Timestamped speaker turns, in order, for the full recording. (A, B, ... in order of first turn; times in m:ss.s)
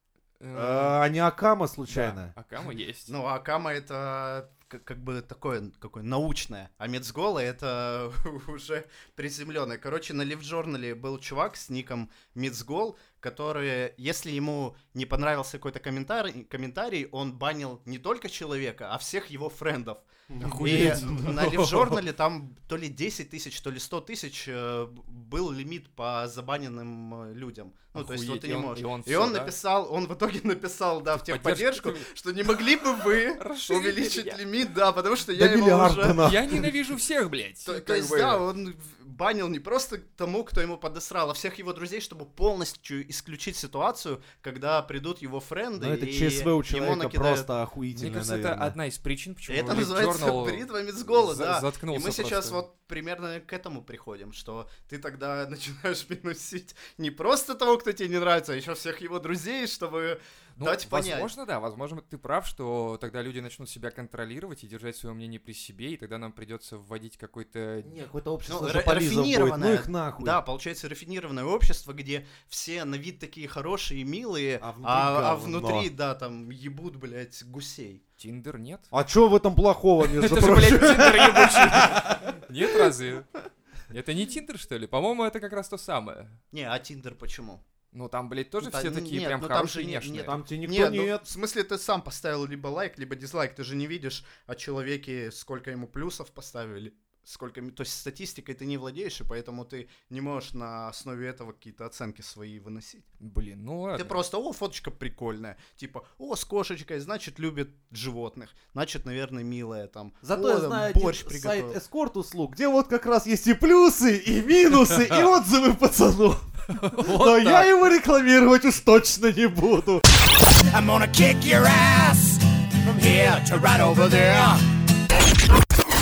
0:00.4-0:01.0 A
0:00.5-0:02.3 B
0:01.9-0:03.1 A
0:03.1-0:20.1 C
0:20.3-0:21.4 B
0:20.4-0:21.9 A
0:20.6-0:36.3 C
0:27.9-0:29.5 A
0:31.1-0:32.1 A
0:33.4-0:34.4 A
0:35.3-0:36.7 B
0:36.2-0:38.4 A
0:37.6-0:47.5 C
0:45.8-0:48.8 B
0:47.9-0:52.6 A
0:49.5-1:01.3 C
1:00.6-1:08.0 A
1:07.8-1:10.4 B
1:08.5-1:18.0 C
1:14.6-1:15.9 B
1:18.2-1:18.9 A
1:18.9-1:22.9 B
1:20.0-1:23.3 A
1:23.9-1:26.4 A
1:26.5-1:27.6 C
1:27.9-1:30.4 A
1:28.6-1:43.0 C
1:30.2-1:31.2 B
1:43.2-1:44.2 A
1:43.9-1:51.8 C
1:50.2-2:00.0 B
1:56.7-1:57.7 A
2:00.7-2:04.6 D